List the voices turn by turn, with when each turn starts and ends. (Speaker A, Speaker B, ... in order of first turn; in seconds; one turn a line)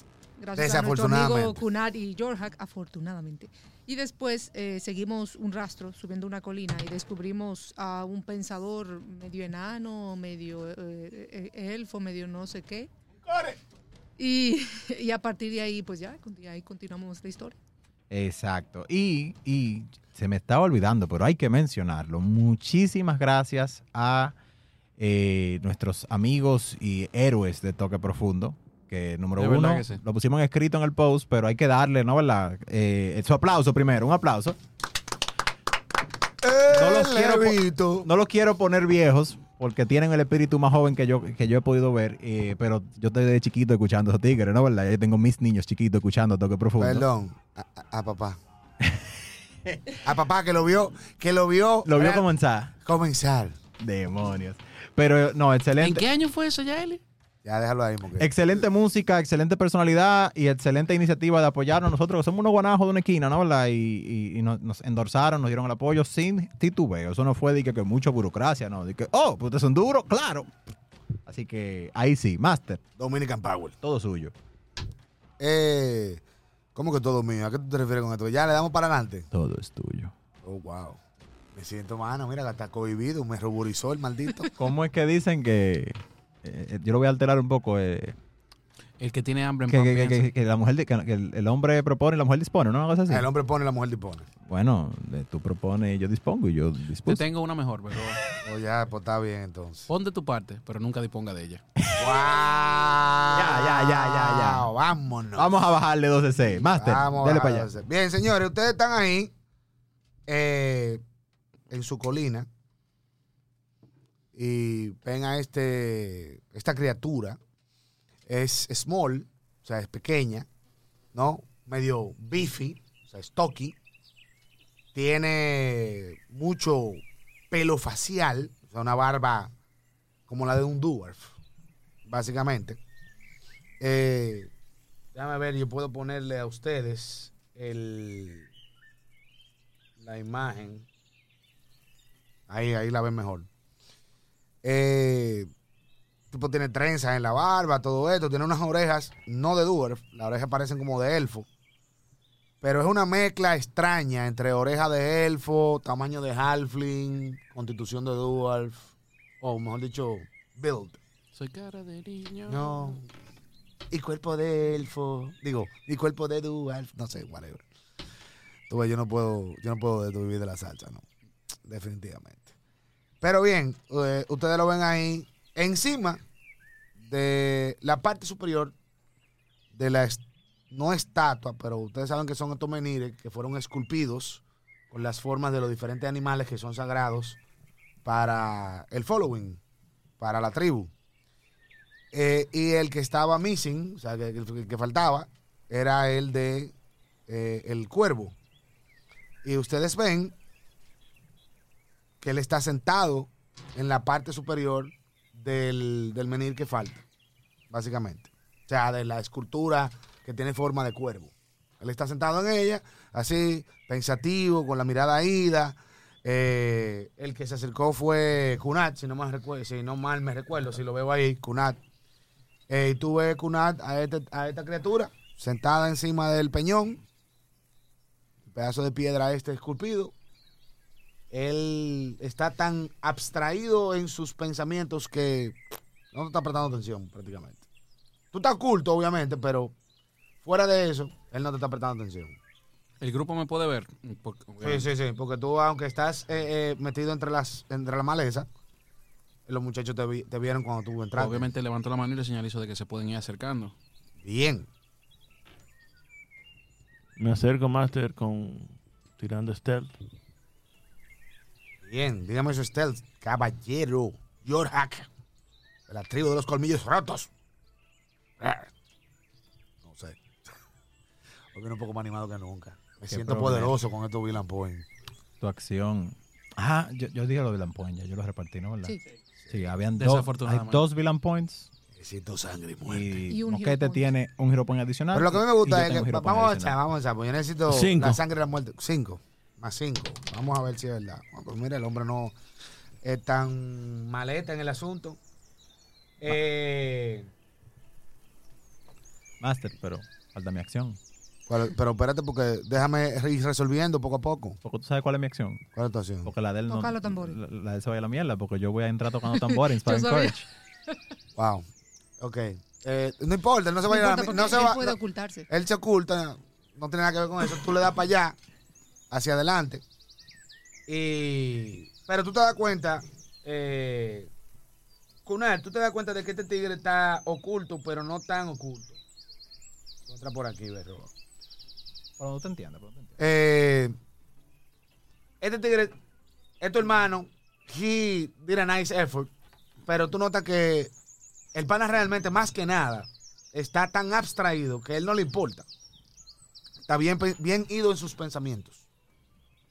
Speaker A: 0.4-12.9
Speaker B: 0.6-1.6
Speaker A: 14.2-17.6
Speaker C: 18.1-24.3
Speaker C: 25.0-34.6
Speaker D: 29.4-30.0
Speaker B: 36.4-38.1
Speaker C: 36.7-47.0
Speaker B: 46.8-48.4
Speaker C: 48.8-49.1
Speaker C: 49.6-49.9
Speaker B: 50.0-52.2
Speaker C: 51.8-52.7
Speaker B: 52.8-53.6
Speaker C: 53.8-56.1
Speaker D: 55.8-57.0
Speaker B: 57.4-58.3
Speaker C: 58.2-70.5
Speaker C: 71.2-72.8
Speaker B: 73.0-73.8
Speaker C: 73.8-74.3
Speaker B: 75.4-76.2
Speaker B: 76.7-79.3
Speaker C: 79.3-80.1
Speaker B: 80.4-81.0
Speaker B: 81.5-84.5
Speaker C: 84.5-88.2
Speaker D: 89.0-90.3
Speaker C: 89.7-93.3
Speaker B: 93.1-94.3
Speaker C: 94.5-97.2
Speaker D: 97.0-98.2
Speaker B: 98.4-99.9
Speaker D: 99.9-101.6
Speaker C: 101.8-102.2
Speaker B: 102.0-105.5
Speaker C: 103.3-104.7
Speaker C: 105.3-107.7
Speaker B: 106.6-109.3
Speaker B: 110.3-111.0
Speaker B: 111.7-112.5
Speaker B: 114.3-117.4
Speaker B: 118.3-120.5
Speaker B: 121.1-123.7
Speaker B: 124.9-129.5
Speaker B: 130.3-131.3
Speaker B: 132.1-132.8
Speaker B: 133.8-134.5
Speaker B: 135.1-138.5
Speaker B: 140.0-140.8
Speaker B: 142.5-143.5
Speaker B: 144.6-145.5
Speaker B: 146.3-151.5
Speaker B: 152.6-161.0
Speaker D: 161.3-162.9
Speaker B: 162.5-163.1
Speaker B: 163.9-167.6
Speaker B: 168.7-171.0
Speaker B: 171.7-172.5
Speaker B: 173.2-176.2
Speaker B: 177.0-178.7
Speaker B: 179.7-187.4
Speaker B: 188.0-189.6
Speaker B: 190.2-190.9
Speaker B: 192.1-196.7
Speaker B: 197.3-198.3
Speaker B: 199.4-200.3
Speaker B: 202.2-207.0
Speaker B: 207.7-221.8
Speaker B: 222.7-227.0
Speaker B: 228.5-230.1
Speaker B: 231.3-235.6
Speaker B: 236.1-237.6
Speaker B: 238.3-239.7
Speaker B: 240.4-242.4
Speaker D: 243.0-244.9
Speaker B: 244.6-248.5
Speaker B: 249.5-251.5
Speaker D: 251.1-253.7
Speaker B: 254.2-254.7
Speaker E: 257.2-259.9
Speaker B: 261.8-265.1
Speaker B: 265.9-267.3
Speaker B: 268.4-268.7
Speaker B: 269.8-270.2
Speaker B: 271.5-274.9
Speaker C: 273.1-273.8
Speaker C: 275.4-279.0
Speaker C: 279.5-281.7
Speaker D: 279.9-280.8
Speaker B: 281.9-283.2
Speaker C: 282.8-286.8
Speaker A: 283.3-284.1
Speaker B: 285.1-292.3
Speaker E: 287.7-288.2
Speaker B: 293.0-295.2
Speaker B: 296.2-297.3
Speaker C: 299.4-301.0
Speaker B: 301.5-304.6
Speaker C: 304.6-305.6
Speaker B: 305.7-306.3
Speaker C: 306.2-310.5
Speaker A: 306.7-307.4
Speaker A: 309.3-310.3
Speaker B: 311.4-311.6
Speaker B: 312.2-315.0
Speaker A: 313.9-315.5
Speaker B: 315.5-318.4
Speaker B: 319.1-319.8
Speaker B: 320.9-324.3
Speaker B: 325.2-329.0
Speaker B: 330.1-331.1
Speaker C: 332.2-333.2
Speaker B: 333.2-333.9
Speaker B: 335.4-335.9
Speaker B: 336.6-339.3
Speaker B: 339.9-340.9
Speaker B: 341.5-345.6
Speaker B: 346.9-348.8